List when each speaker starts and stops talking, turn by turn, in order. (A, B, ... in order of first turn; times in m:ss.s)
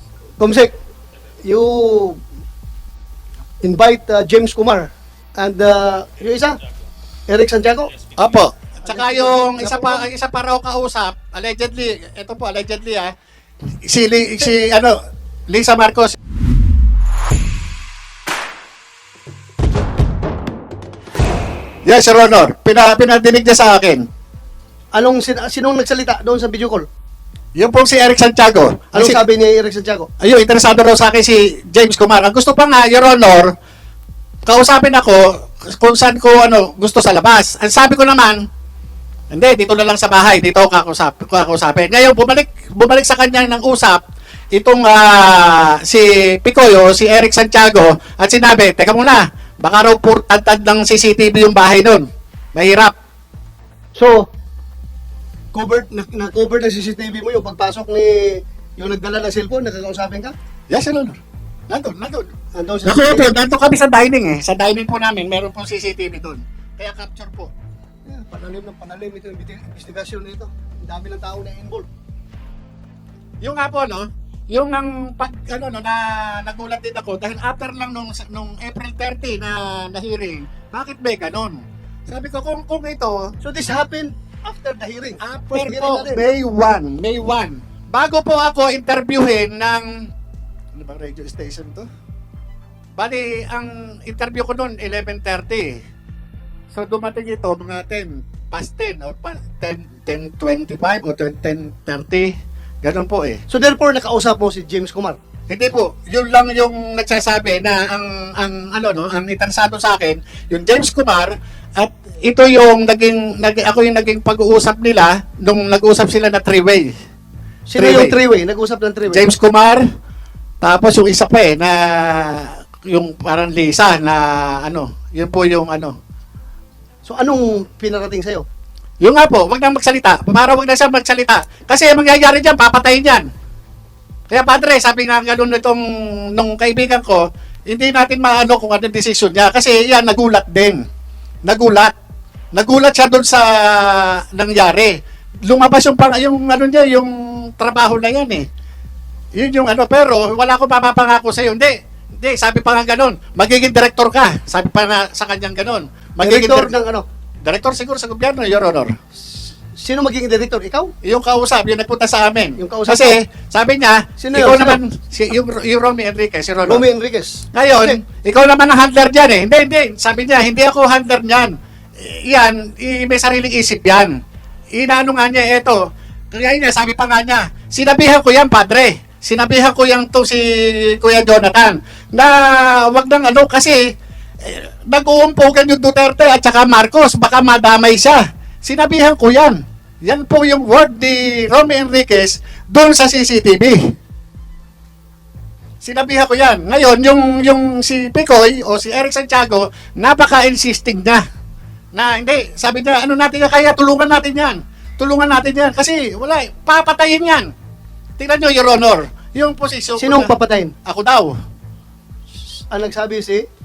0:00.4-0:00.7 A
0:01.4-0:02.2 A
0:03.6-0:06.6 A
0:07.3-0:07.9 A
0:08.2-0:13.1 B
0:08.8-0:10.1 A
0:13.8-0:15.0 B
0:15.5-0:16.2 B
0:21.8-0:24.1 B
0:24.9-0:26.9 A
0:27.6-0:29.2 B
0:28.9-0:30.1 A
0:30.2-0:33.5 B
0:34.5-0:38.4 B
0:39.3-0:44.0 B
0:44.5-0:52.9 B
0:54.0-0:54.3 A
0:55.5-1:00.3 A
1:00.7-1:02.3 B
1:02.5-1:03.3 A
1:02.8-1:07.5 B
1:08.1-1:11.9 A
1:13.4-1:23.3 B
1:23.4-1:26.3 A
1:25.2-1:30.1 B
1:30.7-1:31.9 B
1:33.0-1:35.8 B
1:36.7-1:43.4 B
1:43.5-1:45.2 A
1:45.5-1:56.9 B
1:57.7-1:59.2 A
1:57.8-1:58.2 B
1:59.1-1:59.9 B
2:00.6-2:06.0 B
2:07.0-2:08.5 A
2:09.0-2:13.3 B
2:14.3-2:15.8 B
2:16.3-2:20.8 B
2:21.4-2:22.0 B
2:22.5-2:28.5 B
2:29.4-2:36.7 B
2:36.2-2:37.1 A
2:37.4-2:38.9 B
2:39.8-2:40.9 A
2:41.0-2:46.8 B
2:42.6-2:43.2 A
2:44.2-2:44.8 A
2:46.7-2:48.0 A
2:47.5-2:54.2 B
2:54.7-3:03.8 B
3:04.4-3:13.8 B
3:15.8-3:21.2 B
3:21.9-3:27.5 B
3:28.2-3:30.3 B
3:30.0-3:30.7 A
3:30.8-3:31.4 B
3:32.7-3:33.5 A